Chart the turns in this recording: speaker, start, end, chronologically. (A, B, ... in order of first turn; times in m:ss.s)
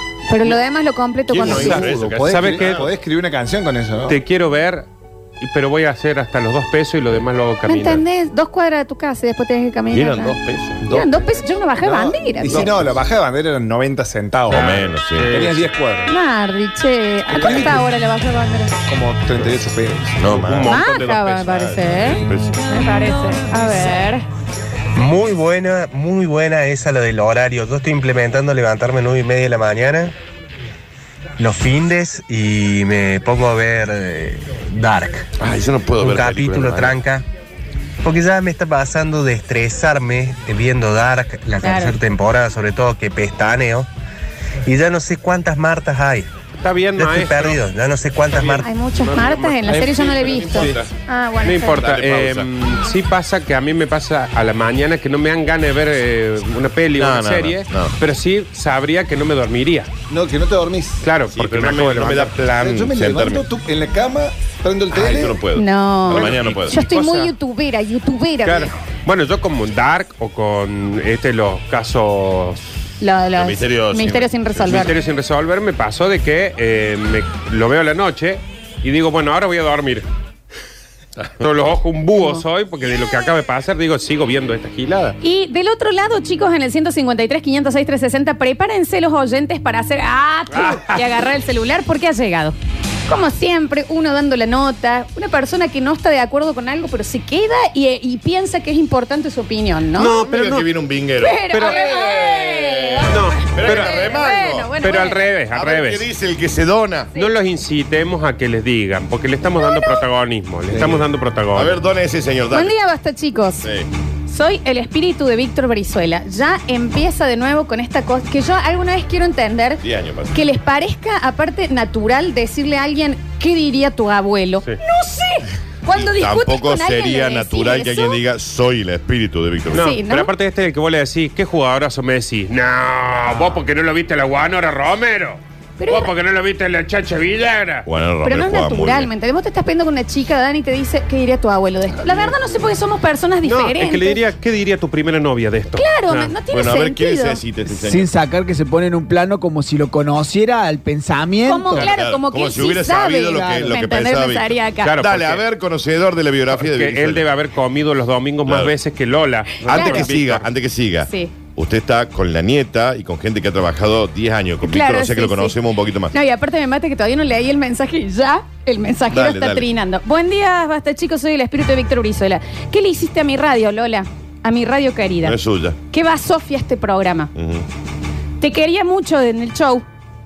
0:00.3-0:01.9 A
0:01.3-0:02.9 B
0:01.4-0:04.2 C
0:01.5-0:02.8 D
0:04.1-0:04.9 D
0:05.4-0:08.0 D
0:07.6-0:12.7 A
0:09.9-0:11.0 B
0:11.8-0:14.7 C
0:14.5-0:15.6 D
0:14.5-0:15.4 B
0:15.3-0:16.1 C
0:16.1-0:18.7 A
0:17.3-0:17.9 C
0:18.9-0:20.4 C
0:20.2-0:20.8 B
0:20.3-0:22.2 D
0:20.6-0:24.2 A
0:22.2-0:22.6 B
0:24.9-0:30.1 E
0:31.4-0:35.3 E
0:35.4-0:37.0 B
0:36.0-0:37.2 E
0:38.0-0:43.9 E
0:41.6-0:42.0 A
0:44.6-0:46.3 E
0:46.6-0:47.6 D
0:47.0-0:48.7 E
0:48.4-0:50.6 D
0:48.6-0:51.8 A
0:49.7-0:50.9 B
0:51.4-0:59.9 D
0:51.5-0:52.5 B
0:57.0-0:57.9 B
1:00.1-1:01.1 C
1:01.0-1:02.3 D
1:01.3-1:03.4 B
1:02.1-1:05.4 C
1:04.9-1:07.3 B
1:05.6-1:08.7 A
1:06.3-1:06.7 D
1:08.5-1:12.6 D
1:13.0-1:14.9 A
1:13.4-1:14.9 B
1:14.7-1:20.0 D
1:21.4-1:25.2 D
1:22.1-1:22.4 A
1:25.2-1:32.6 A
1:30.5-1:31.0 D
1:33.1-1:40.2 A
1:40.0-1:40.7 D
1:40.1-1:44.7 B
1:41.2-1:45.3 A
1:41.5-1:41.8 D
1:43.1-1:43.9 D
1:44.8-1:46.0 D
1:45.5-1:47.1 B
1:47.1-1:51.8 D
1:49.6-1:50.0 A
1:51.5-1:52.7 B
1:52.5-1:53.6 A
1:53.6-1:53.9 B
1:54.3-2:08.2 A
1:59.8-2:00.4 B
2:05.9-2:09.9 B
2:09.7-2:10.3 A
2:09.7-2:17.9 D
2:15.8-2:16.1 A
2:17.9-2:19.1 B
2:18.2-2:24.2 A
2:23.4-2:26.3 D
2:25.8-2:27.4 A
2:26.5-2:28.1 B
2:27.7-2:31.9 F
2:31.4-2:34.9 A
2:31.8-2:37.2 B
2:33.4-2:33.7 F
2:34.8-2:35.4 D
2:36.5-2:40.5 D
2:38.4-2:38.7 B
2:39.6-2:46.1 B
2:39.6-2:40.1 A
2:41.0-2:41.3 A
2:44.6-2:45.6 A
2:46.1-2:55.4 A
2:49.1-2:49.7 B
2:55.2-2:55.8 B
2:55.9-2:57.3 A
2:57.4-2:57.6 B
2:58.4-2:59.8 A